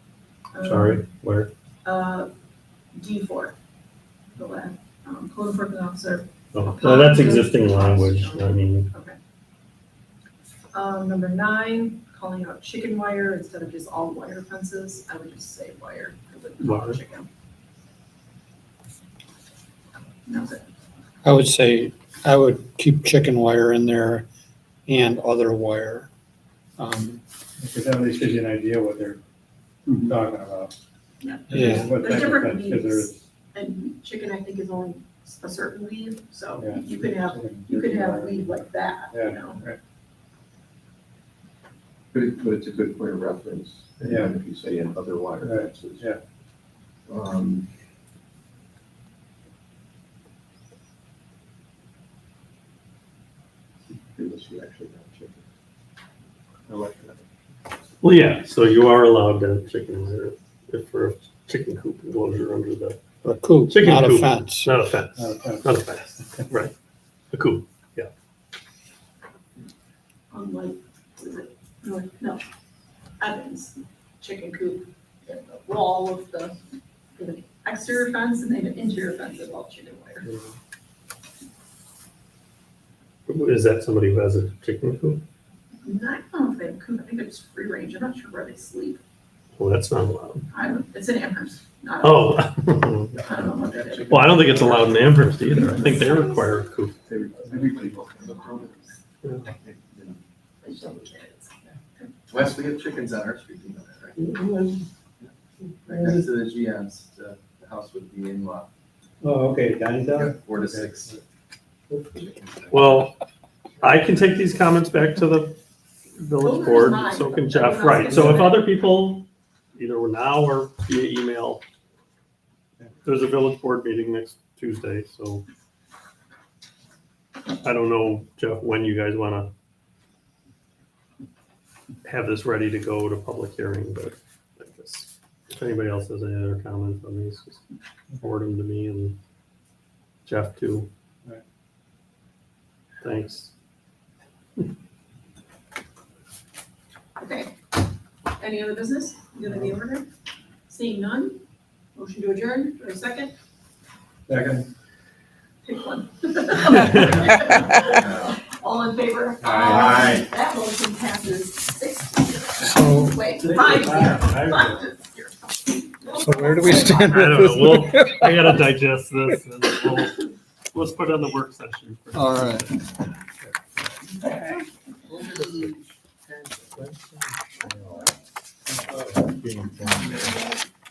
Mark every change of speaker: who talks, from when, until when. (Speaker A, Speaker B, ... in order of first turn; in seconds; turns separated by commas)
Speaker A: 0.5-1.1, Speaker B: 0.6-1.5, Speaker A: 1.8-2.3, Speaker A: 2.9-3.5, Speaker A: 4.3-9.2, Speaker B: 6.5-8.9, Speaker A: 10.7-17.3, Speaker B: 16.6-17.0, Speaker A: 20.2-20.6, Speaker C: 21.2-24.2, Speaker C: 24.9-26.1, Speaker C: 26.8-27.2, Speaker D: 27.6-29.2, Speaker D: 29.9-30.7, Speaker A: 31.2-39.6, Speaker D: 31.5-33.2, Speaker C: 31.5-31.9, Speaker D: 36.6-38.5, Speaker D: 39.1-39.8, Speaker E: 42.1-46.1, Speaker D: 44.0-44.4, Speaker D: 45.4-46.2, Speaker E: 47.1-47.6, Speaker E: 54.1-55.4, Speaker E: 56.7-57.2, Speaker B: 58.0-66.7, Speaker C: 63.2-64.7, Speaker D: 65.2-66.5, Speaker B: 67.3-68.1, Speaker A: 70.3-72.4, Speaker A: 73.2-76.6, Speaker A: 77.2-80.3, Speaker B: 83.3-85.2, Speaker A: 85.8-89.0, Speaker B: 89.5-90.5, Speaker A: 90.5-92.5, Speaker B: 92.0-93.2, Speaker A: 93.1-95.0, Speaker E: 93.1-95.0, Speaker B: 94.1-97.0, Speaker A: 95.5-96.7, Speaker E: 97.0-98.7, Speaker A: 97.5-99.0, Speaker E: 99.5-100.2, Speaker A: 100.6-102.1, Speaker E: 102.3-104.2, Speaker D: 104.2-104.8, Speaker D: 105.8-106.2, Speaker E: 105.8-108.7, Speaker D: 109.2-111.2, Speaker E: 110.1-111.2, Speaker E: 112.1-113.1, Speaker B: 112.7-113.2, Speaker B: 113.8-115.6, Speaker B: 116.2-121.6, Speaker A: 116.4-118.7, Speaker D: 118.1-118.4, Speaker B: 123.0-125.4, Speaker B: 127.5-129.5, Speaker B: 132.0-137.6, Speaker B: 138.2-139.2, Speaker B: 140.2-140.9, Speaker B: 143.0-143.5, Speaker A: 147.2-147.6, Speaker A: 148.4-150.1, Speaker A: 150.7-151.4, Speaker A: 151.9-153.3, Speaker D: 154.3-154.7, Speaker A: 155.6-167.0, Speaker B: 156.7-157.2, Speaker E: 158.0-158.3, Speaker E: 159.4-160.2, Speaker C: 162.7-163.2, Speaker D: 163.4-164.7, Speaker B: 163.6-164.5, Speaker C: 166.2-168.4, Speaker B: 166.7-172.9, Speaker C: 172.2-172.6, Speaker C: 176.7-178.1, Speaker C: 178.7-180.6